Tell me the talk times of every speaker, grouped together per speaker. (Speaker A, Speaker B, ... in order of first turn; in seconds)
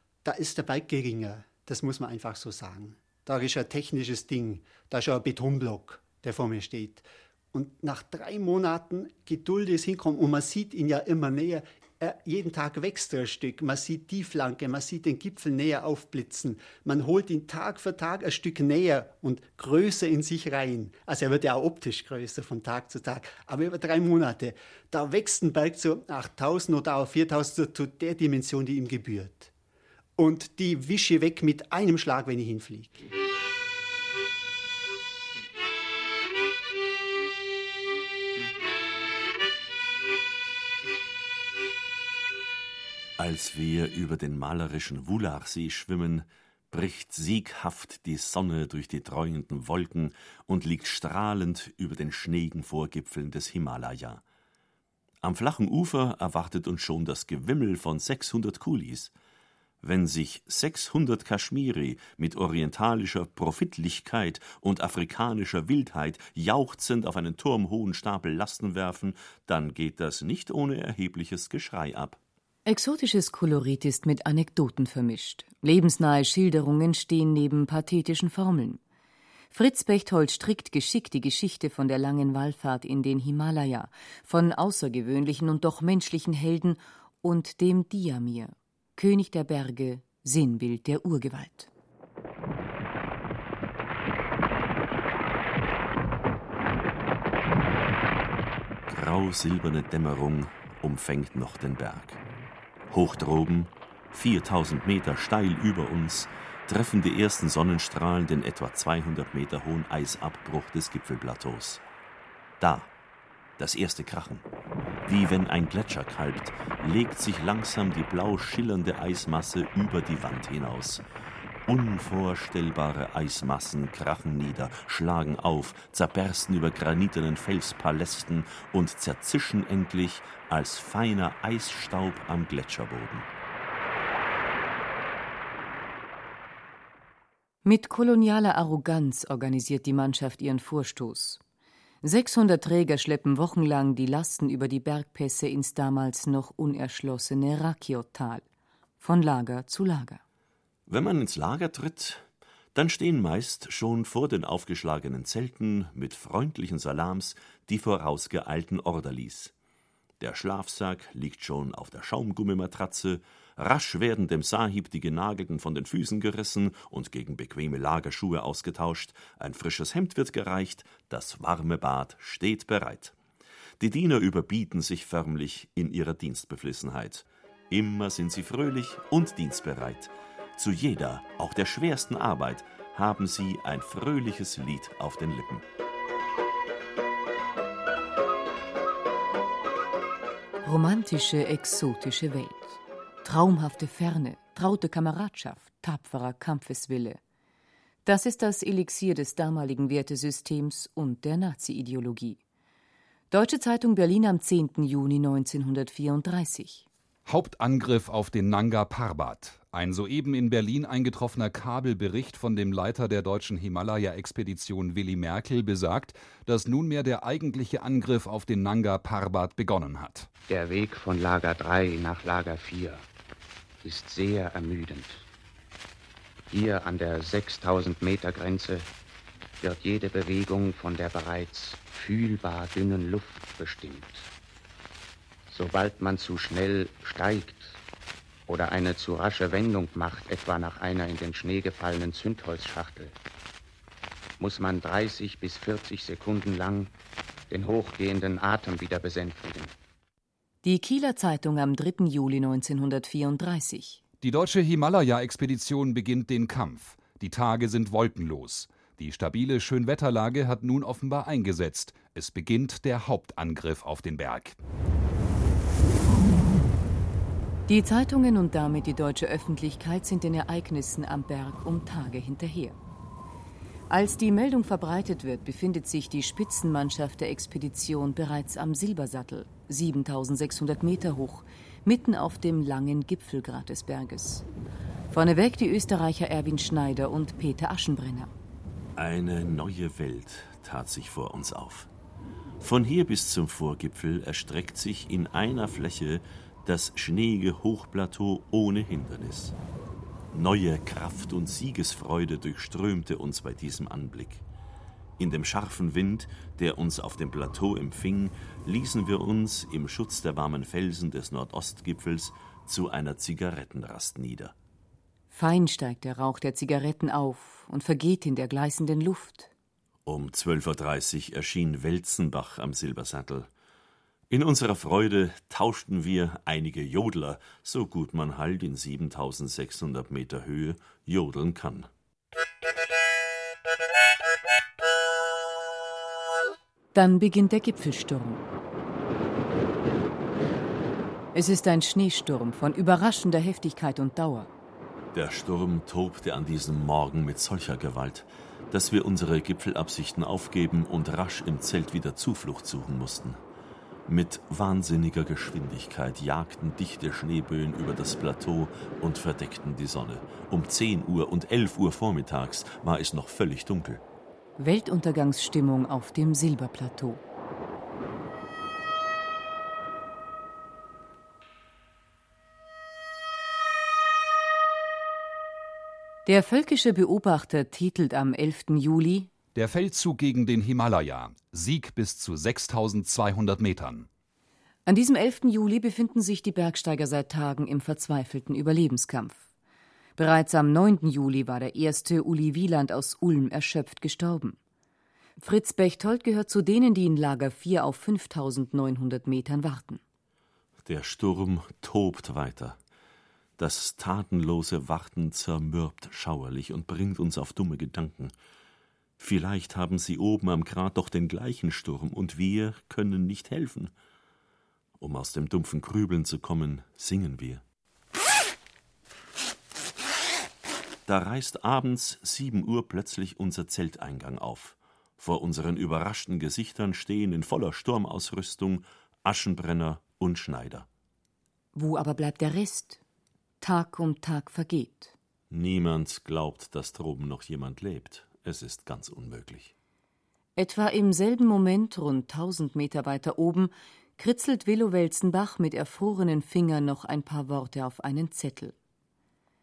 Speaker A: 0.2-29.5, 30.2-33.0
Speaker B: 43.2-54.2, 55.2-59.1, 59.8-72.2, 98.9-102.2, 102.9-111.8, 112.6-112.9, 113.6-114.4, 115.0-121.0, 121.7-133.3, 150.9-159.5, 160.2-173.1, 173.8-185.6, 289.0-291.9, 292.6-299.6, 300.3-304.4, 305.2-314.5, 320.0-323.5, 324.3-331.9, 345.1-353.4, 354.1-364.0, 400.8-402.8, 403.6-408.3, 409.2-413.9, 415.0-417.6, 421.1-430.9, 435.5-439.7
Speaker C: 72.7-78.8, 79.5-91.7, 137.6-141.4, 142.0-148.4, 149.0-150.2, 190.6-197.2, 198.0-202.4, 203.3-206.8, 250.6-254.0, 267.7-272.8, 273.9-284.4, 285.1-288.3, 315.3-319.5, 336.9-338.4, 341.3-344.5, 364.6-367.2, 376.2-379.3, 384.9-389.5, 390.2-394.6, 395.4-400.0, 431.7-433.0, 433.6-435.1, 440.6-448.7
Speaker D: 207.3-220.3, 254.2-264.6, 379.5-384.1
Speaker E: 220.5-223.1, 223.8-225.2, 226.5-228.9, 229.6-234.3, 235.5-237.8, 238.5-243.1, 244.4-246.9, 247.5-249.7